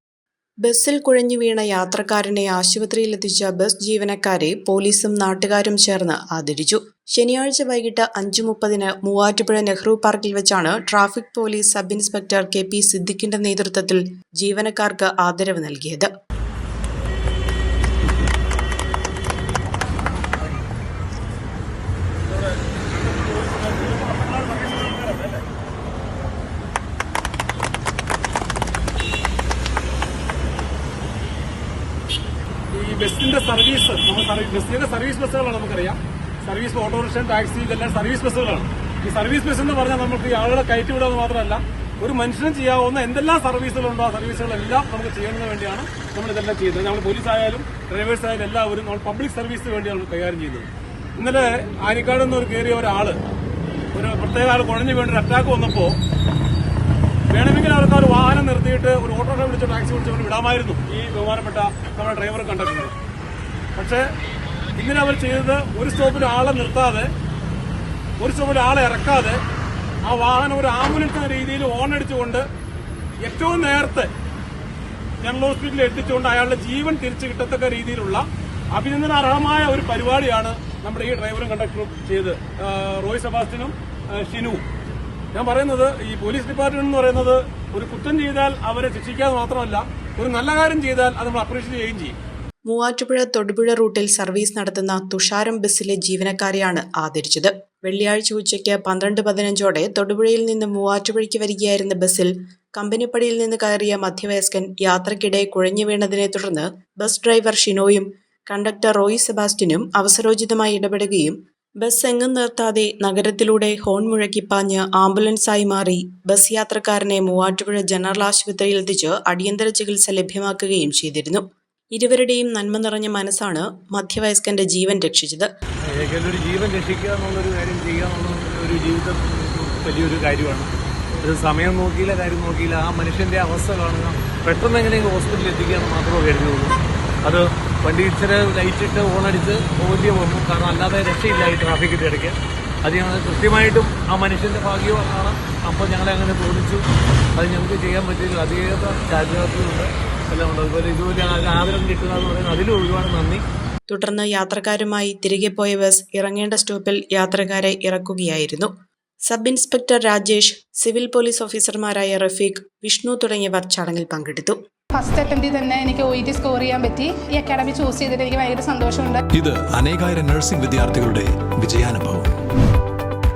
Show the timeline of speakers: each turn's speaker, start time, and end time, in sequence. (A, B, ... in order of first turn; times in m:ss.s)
0:00.6-0:16.1 A
0:22.3-0:25.4 B
0:32.7-0:50.7 B
0:51.2-0:53.2 B
0:53.9-0:56.0 B
0:57.3-1:02.9 B
1:03.8-1:04.1 B
1:04.8-1:07.1 B
1:08.2-1:09.4 B
1:10.0-1:12.4 B
1:13.2-1:14.1 B
1:15.2-1:24.6 B
1:25.3-1:32.1 B
1:32.6-2:05.5 A
2:05.8-2:33.4 C
2:33.9-2:38.7 A
2:39.2-2:44.6 A
2:44.9-2:49.2 D
2:49.3-2:52.3 E